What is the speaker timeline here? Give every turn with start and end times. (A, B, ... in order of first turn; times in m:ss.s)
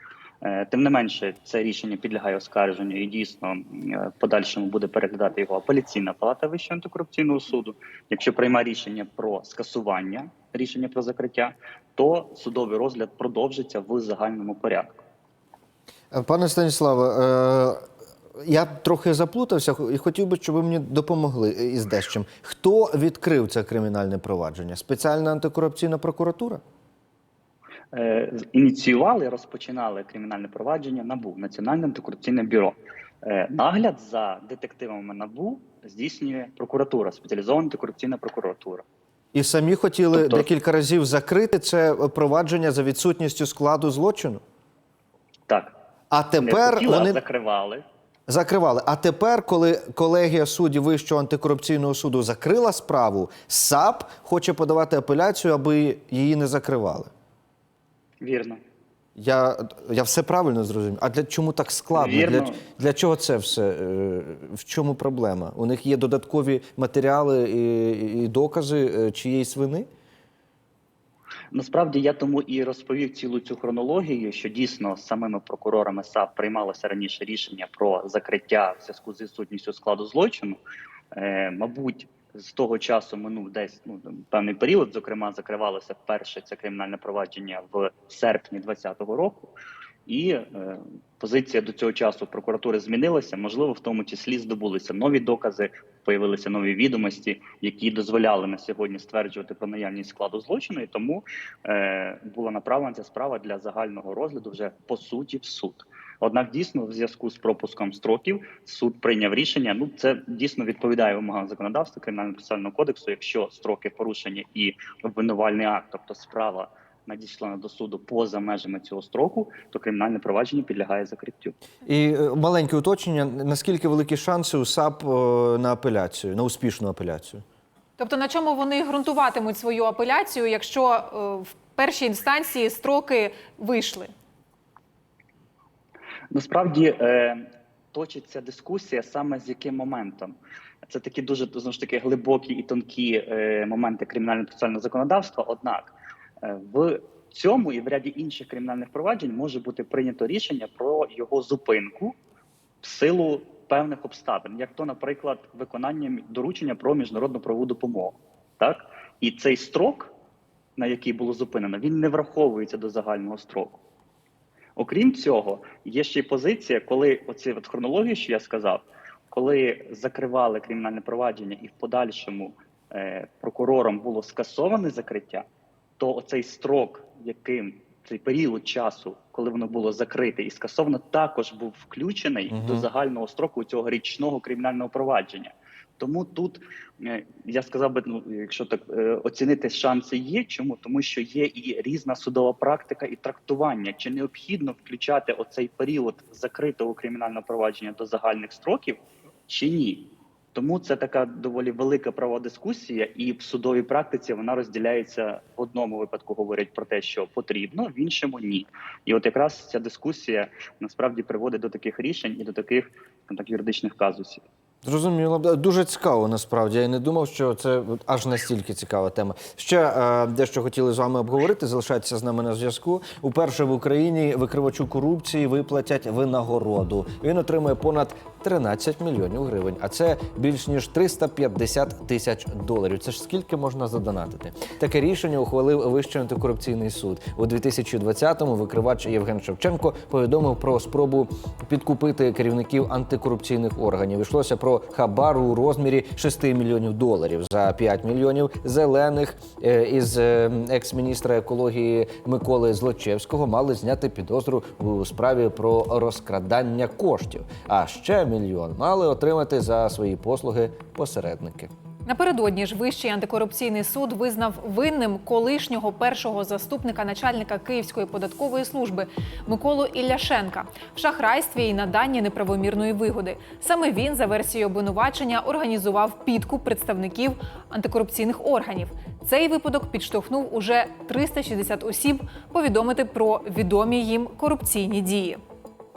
0:00.4-0:15.0 A
0:16.1-0:17.8 B
0:18.4-0:26.6 B
0:27.9-0:38.8 A
0:39.3-0:44.4 B
0:40.1-0:40.5 A
0:45.5-0:45.8 A
0:46.1-0:47.2 B
0:46.4-0:47.8 A
0:48.3-0:57.1 B
0:58.2-0:58.6 A
0:59.2-1:09.9 B
1:02.0-1:02.6 A
1:11.5-1:20.6 A
1:21.1-1:29.5 A
1:30.1-2:01.6 A
2:01.8-2:07.4 B
2:08.0-2:14.1 C
2:16.3-2:32.2 A
2:32.8-2:40.1 A
2:40.8-2:43.8 A
2:44.8-2:55.5 A
2:56.0-3:34.4 A
3:02.5-3:02.9 B
3:34.8-4:21.7 B
4:22.1-4:45.4 C